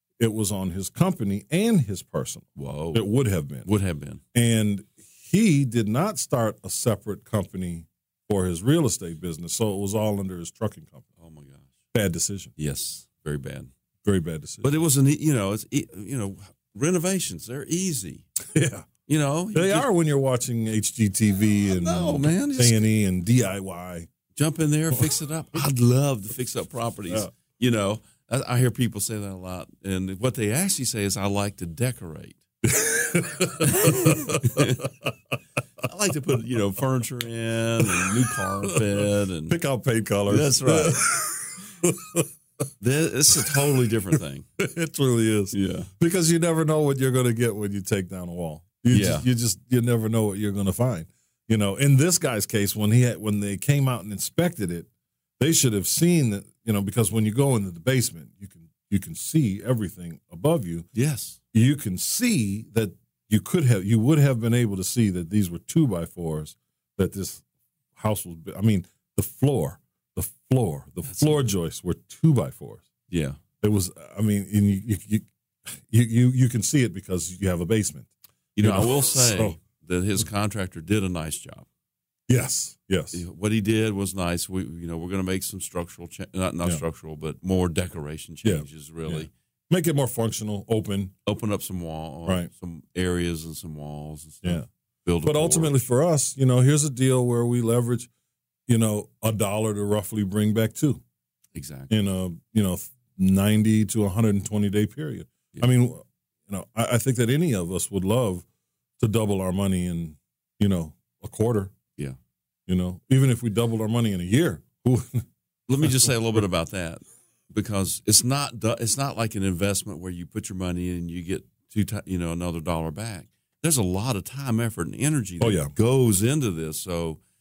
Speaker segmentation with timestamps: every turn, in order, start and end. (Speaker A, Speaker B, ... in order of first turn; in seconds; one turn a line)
Speaker A: 0.2-3.7
Speaker B: 2.6-3.1
Speaker B: 3.6-4.2
Speaker A: 4.3-11.1
Speaker B: 11.2-11.7
Speaker A: 11.9-12.5
Speaker B: 12.6-13.7
Speaker A: 14.0-14.7
Speaker B: 14.6-18.3
Speaker A: 18.5-18.9
Speaker B: 19.1-19.9
Speaker A: 19.5-24.1
Speaker B: 21.7-22.8
Speaker B: 24.4-32.4
Speaker A: 32.6-34.8
Speaker B: 33.6-34.9
Speaker B: 35.8-39.6
Speaker A: 37.8-38.1
Speaker A: 38.7-42.3
Speaker B: 40.3-41.0
Speaker B: 42.8-44.5
Speaker A: 43.3-43.6
Speaker A: 44.6-54.9
Speaker B: 45.5-45.9
Speaker B: 48.9-49.3
Speaker A: 55.4-60.9
Speaker B: 61.0-61.4
Speaker A: 61.5-67.4
Speaker A: 68.0-72.9
Speaker B: 73.1-73.4
Speaker A: 73.6-75.3
Speaker A: 75.9-78.1
Speaker B: 78.6-81.7
Speaker A: 78.6-79.6
Speaker A: 82.3-83.2
Speaker B: 83.1-89.3
Speaker A: 88.4-91.1
Speaker B: 91.3-95.8
Speaker A: 95.2-98.1
Speaker A: 98.7-101.0
Speaker B: 101.5-101.9
Speaker A: 101.9-108.5
Speaker A: 109.0-111.7
Speaker A: 112.7-115.2
Speaker B: 115.7-127.2
Speaker A: 115.8-116.4
Speaker A: 125.4-125.7